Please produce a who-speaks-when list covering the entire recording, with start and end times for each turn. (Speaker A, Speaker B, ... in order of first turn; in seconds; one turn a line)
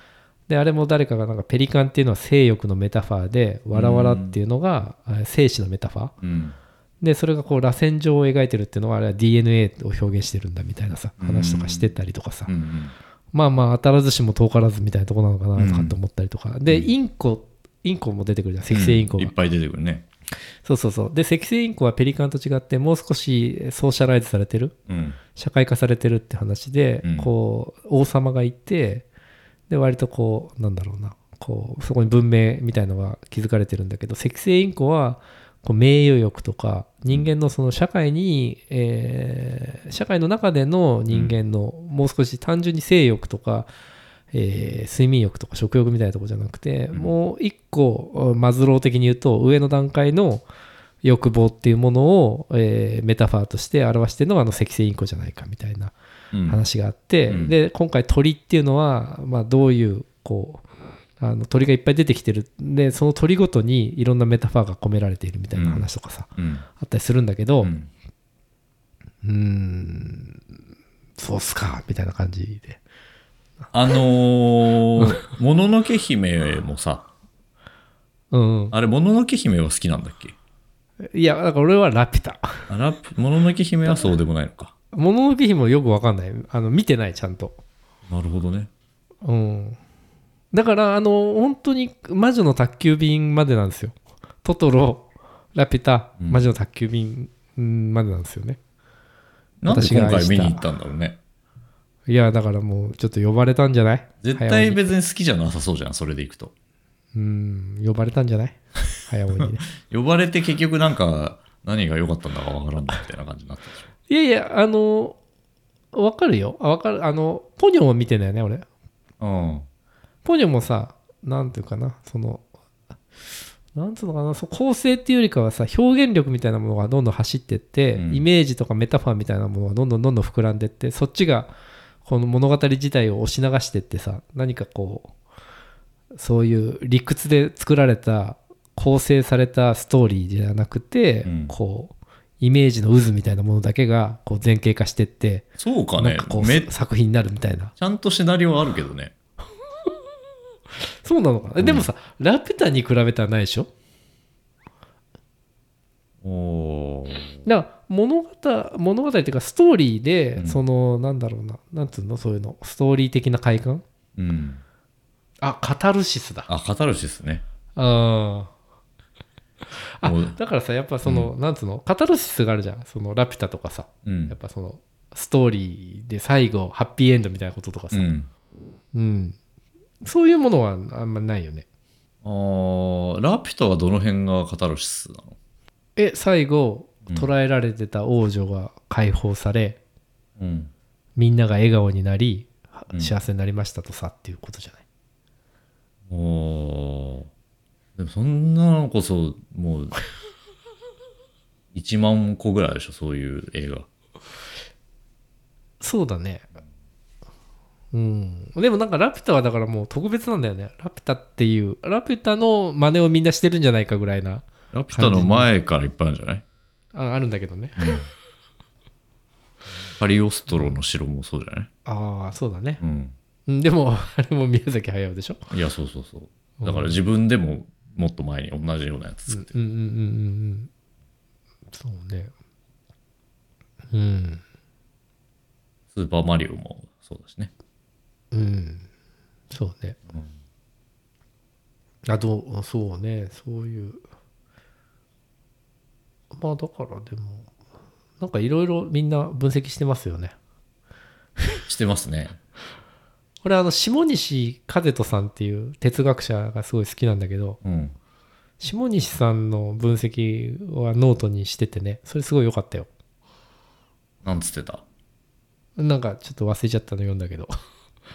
Speaker A: 0.5-6.1
Speaker B: 3.7-4.4
Speaker B: 6.2-6.6
Speaker A: 7.0-12.5
Speaker B: 11.2-11.9
Speaker B: 12.5-12.9
Speaker A: 13.3-19.3
Speaker B: 15.6-15.9
Speaker B: 18.7-20.1
Speaker A: 20.6-24.8
Speaker B: 24.9-25.2
Speaker A: 25.4-29.1
Speaker B: 27.0-27.3
Speaker A: 29.7-43.7
Speaker B: 41.1-41.4
Speaker A: 44.3-50.5
Speaker A: 51.0-55.9
Speaker B: 56.3-56.6
Speaker A: 56.5-60.6
Speaker A: 61.2-67.7
Speaker B: 65.6-66.7
Speaker B: 67.6-67.9
Speaker A: 69.2-70.4
Speaker A: 71.2-72.8
Speaker B: 73.7-77.1
Speaker A: 78.3-78.7
Speaker B: 78.7-80.3
Speaker A: 81.0-82.7
Speaker B: 82.7-84.7
Speaker A: 84.9-87.6
Speaker B: 88.1-88.7
Speaker A: 89.2-89.8
Speaker A: 90.5-98.6
Speaker B: 96.2-96.4
Speaker B: 99.6-101.2
Speaker A: 99.7-100.6
Speaker A: 102.1-104.8
Speaker B: 104.2-106.5
Speaker A: 107.1-109.7
Speaker B: 109.4-113.8
Speaker A: 114.1-115.2
Speaker A: 115.9-118.7
Speaker B: 119.2-119.7
Speaker A: 120.2-122.5
Speaker A: 123.7-131.5
Speaker B: 128.0-128.2
Speaker A: 132.1-135.1
Speaker A: 136.1-147.7
Speaker B: 141.2-141.5
Speaker B: 145.6-146.7
Speaker B: 147.8-149.1
Speaker A: 150.9-153.7
Speaker B: 151.6-151.9
Speaker B: 156.2-157.4
Speaker A: 157.4-163.8
Speaker B: 164.2-164.6
Speaker A: 165.4-166.5
Speaker B: 166.5-167.4
Speaker A: 167.8-168.5
Speaker A: 169.7-178.1
Speaker B: 170.0-170.3
Speaker B: 171.0-171.3
Speaker B: 174.1-174.3
Speaker B: 177.9-178.3
Speaker A: 178.9-179.4
Speaker A: 180.0-181.7
Speaker B: 182.2-185.4
Speaker A: 186.0-189.8
Speaker B: 190.4-190.7
Speaker A: 191.2-194.8
Speaker B: 196.1-197.3
Speaker B: 198.0-200.0
Speaker B: 201.7-203.9
Speaker A: 205.8-206.5
Speaker A: 207.9-215.5
Speaker B: 214.7-216.4
Speaker A: 216.9-218.0
Speaker B: 217.8-218.1
Speaker B: 220.0-221.7
Speaker A: 221.8-222.8
Speaker B: 222.8-223.2
Speaker A: 223.5-225.5
Speaker B: 225.5-229.5
Speaker A: 226.6-227.0
Speaker A: 229.3-230.7
Speaker A: 231.7-232.3
Speaker A: 233.9-234.4
Speaker B: 235.9-237.5
Speaker A: 238.3-238.8
Speaker A: 239.5-240.0
Speaker A: 242.1-244.0
Speaker A: 246.3-247.5
Speaker A: 248.2-250.3
Speaker B: 251.7-252.4
Speaker A: 253.4-257.6
Speaker B: 257.6-257.9
Speaker A: 258.6-262.9
Speaker B: 264.2-264.8
Speaker A: 265.8-267.5